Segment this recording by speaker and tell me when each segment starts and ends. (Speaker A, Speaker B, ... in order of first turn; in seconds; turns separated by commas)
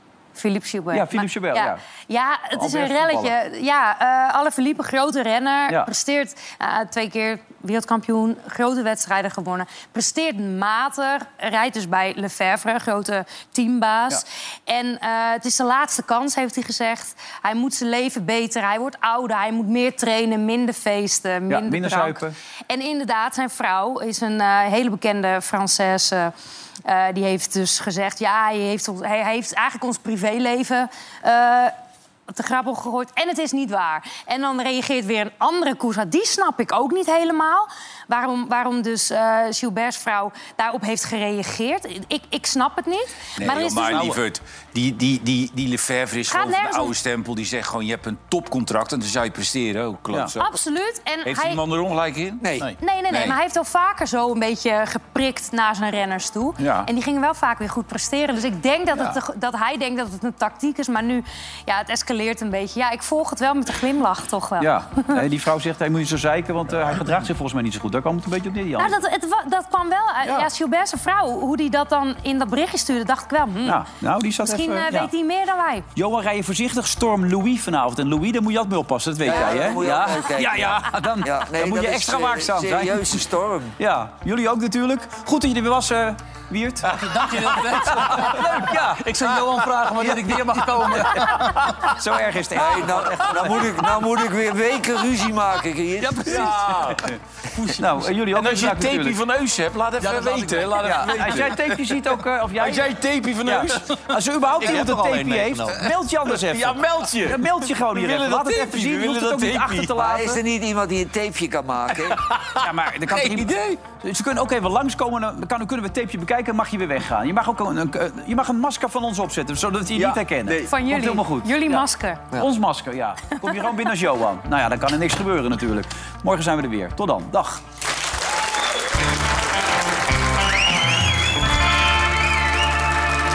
Speaker A: 0.3-26.3, Speaker B: 0.9-1.8, Speaker B: 2.5-3.3, Speaker B: 21.5-22.3, Speaker A: 26.8-31.7, Speaker A: 32.3-44.2, Speaker C: 43.4-50.5, Speaker A: 46.3-46.9, Speaker A: 50.4-51.6, Speaker C: 51.2-53.4, Speaker D: 52.4-52.7, Speaker A: 52.8-65.2, Speaker B: 64.6-69.0, Speaker A: 68.8-73.8, Speaker B: 73.6-75.1, Speaker A: 74.4-75.9, Speaker B: 75.9-83.2, Speaker D: 79.2-83.8, Speaker B: 83.8-87.0, Speaker E: 86.9-91.7, Speaker B: 87.5-89.0, Speaker B: 90.0-93.9, Speaker D: 92.5-96.6, Speaker E: 96.1-96.9, Speaker C: 96.2-102.0, Speaker B: 97.8-99.2, Speaker E: 100.0-100.9, Speaker B: 100.8-110.4, Speaker C: 102.6-110.0, Speaker D: 110.0-112.2, Speaker C: 112.0-113.8, Speaker B: 112.6-127.6, Speaker C: 119.9-120.7, Speaker A: 120.6-122.3